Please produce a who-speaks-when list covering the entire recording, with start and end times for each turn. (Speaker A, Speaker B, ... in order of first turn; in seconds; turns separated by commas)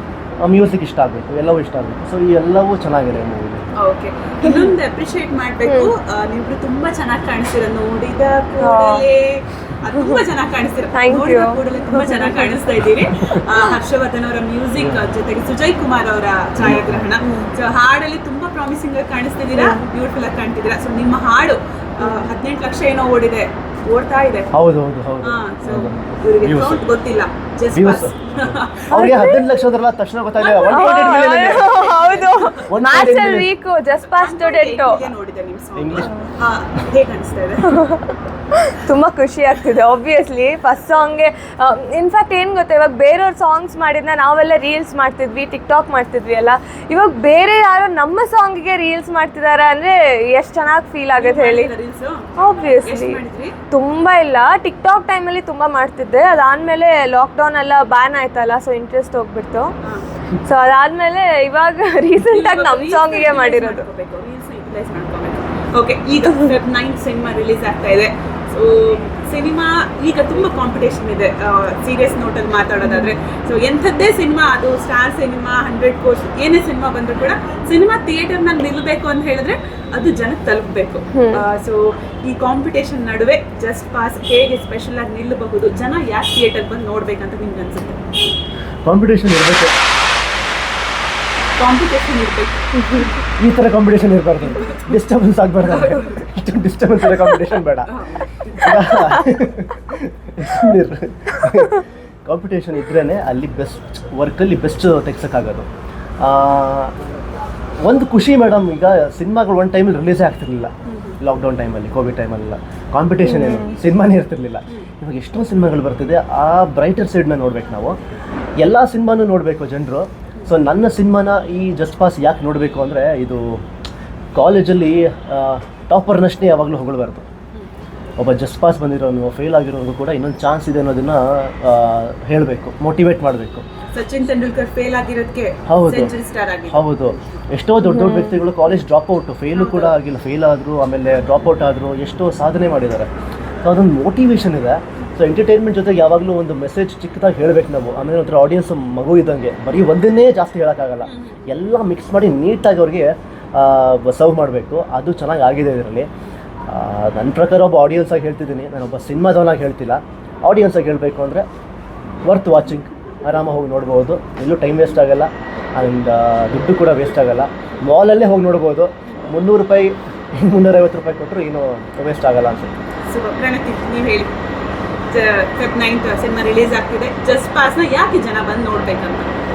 Speaker A: 0.4-3.6, Speaker B: 3.8-24.5, Speaker C: 4.4-4.7, Speaker C: 5.7-5.9, Speaker C: 8.6-9.0, Speaker C: 9.9-10.2, Speaker C: 10.9-12.6, Speaker A: 14.8-15.0, Speaker A: 16.6-17.2, Speaker C: 19.5-19.8, Speaker C: 22.0-22.3, Speaker A: 24.5-26.8, Speaker B: 25.2-29.2, Speaker A: 27.7-28.3, Speaker A: 28.8-31.8, Speaker C: 28.9-29.5, Speaker B: 30.4-33.0, Speaker C: 30.7-35.1, Speaker A: 32.7-33.5, Speaker B: 34.0-37.8, Speaker A: 35.8-36.1, Speaker C: 37.7-38.0, Speaker C: 38.6-51.7, Speaker B: 51.2-53.5, Speaker C: 52.4-59.7, Speaker C: 60.5-63.8, Speaker B: 62.2-88.0, Speaker C: 72.8-73.1, Speaker C: 81.1-81.4, Speaker A: 88.8-89.7, Speaker B: 91.6-93.1, Speaker A: 93.4-97.9, Speaker B: 94.4-94.9, Speaker B: 95.6-96.2, Speaker B: 97.9-98.5, Speaker A: 98.5-105.7, Speaker C: 98.7-99.2, Speaker A: 106.2-106.9, Speaker A: 107.8-118.0, Speaker B: 110.9-111.2, Speaker C: 113.2-113.7, Speaker A: 118.6-123.6, Speaker A: 124.3-127.2, Speaker A: 128.2-133.6, Speaker B: 133.9-137.0, Speaker A: 135.7-136.1, Speaker A: 136.7-143.1, Speaker C: 137.8-138.4, Speaker B: 139.5-139.9, Speaker A: 143.6-156.1, Speaker B: 151.0-151.4, Speaker A: 156.7-161.4, Speaker A: 162.2-172.7, Speaker B: 173.1-174.3, Speaker B: 175.1-179.3